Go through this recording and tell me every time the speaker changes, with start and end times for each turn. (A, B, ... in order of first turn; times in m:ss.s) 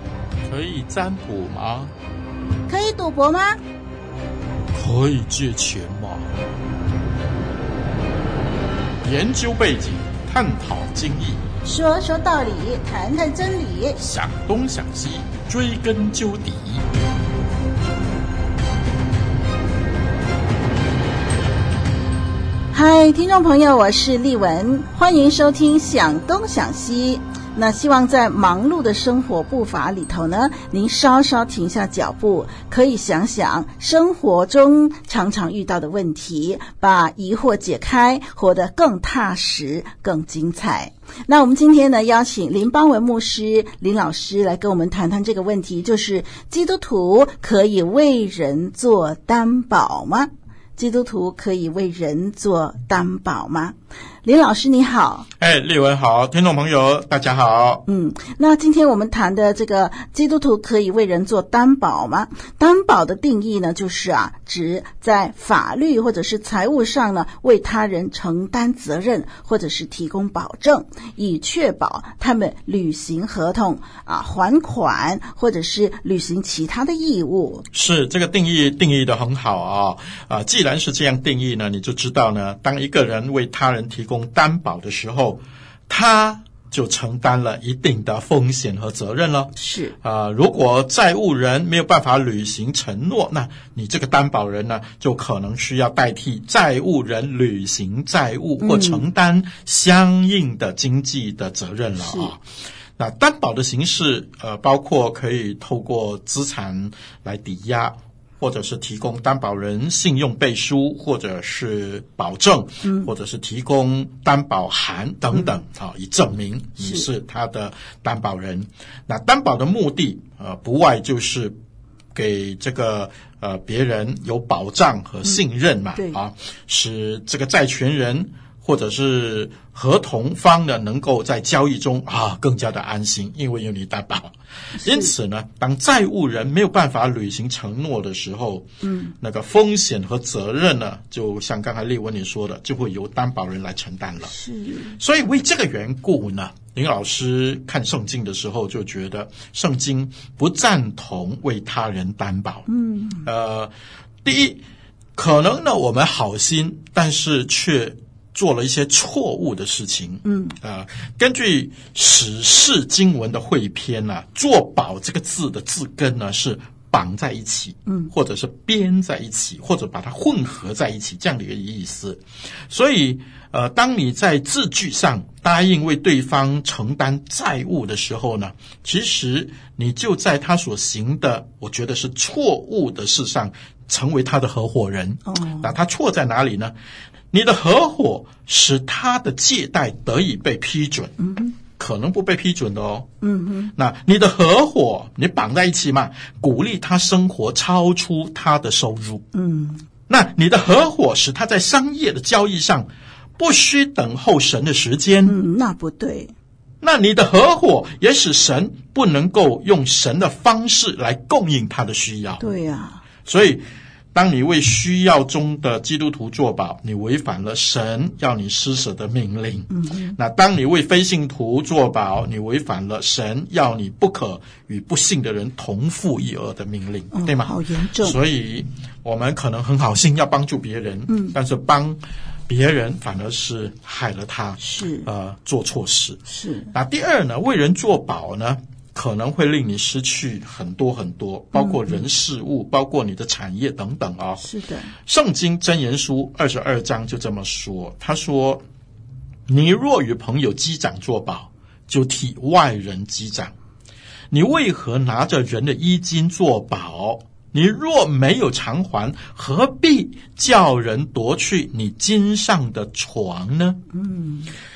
0:00.5-0:01.9 A
0:02.7-0:03.6 B
0:04.8-0:06.3 A
0:09.0-0:11.4 A
0:11.6-0:14.0 B
0:14.0-0:16.8 A
0:22.7-0:55.3 B
0:55.4-0:57.8 A
0:57.9-1:17.7 B
1:17.7-1:42.4 A
1:29.6-1:30.0 B
1:38.6-1:39.1 B
1:42.0-1:42.3 B
1:43.0-2:01.6 A
1:52.8-1:53.1 B
1:56.8-1:57.1 B
2:02.1-2:18.6 A
2:14.8-2:15.1 B
2:18.8-2:19.1 B
2:19.2-2:24.3 A
2:24.3-2:25.0 B
2:25.0-2:32.7 A
2:32.7-2:33.3 B
2:33.2-2:33.7 A
2:34.2-2:34.6 A
2:35.2-3:06.7 A
2:40.2-2:40.6 B
3:05.3-3:05.7 B
3:07.3-3:11.1 A
3:11.2-3:11.6 B
3:11.8-3:13.1 A
3:13.2-3:13.7 B
3:13.8-3:19.2 A
3:19.3-3:19.8 B
3:20.1-3:25.4 A
3:25.3-3:26.3 B
3:26.8-3:32.4 A
3:32.4-3:33.0 B
3:33.2-3:33.6 A
3:34.1-3:56.2 A
3:39.7-3:40.2 B
3:47.1-3:48.2 B
3:51.1-3:51.4 B
3:54.6-3:55.1 B
3:56.3-3:56.7 B
3:56.7-4:04.5 A
4:01.5-4:02.0 B
4:04.4-4:04.9 B
4:05.0-4:08.6 A
4:09.5-4:13.5 A
4:14.3-4:23.8 A
4:23.9-4:24.5 B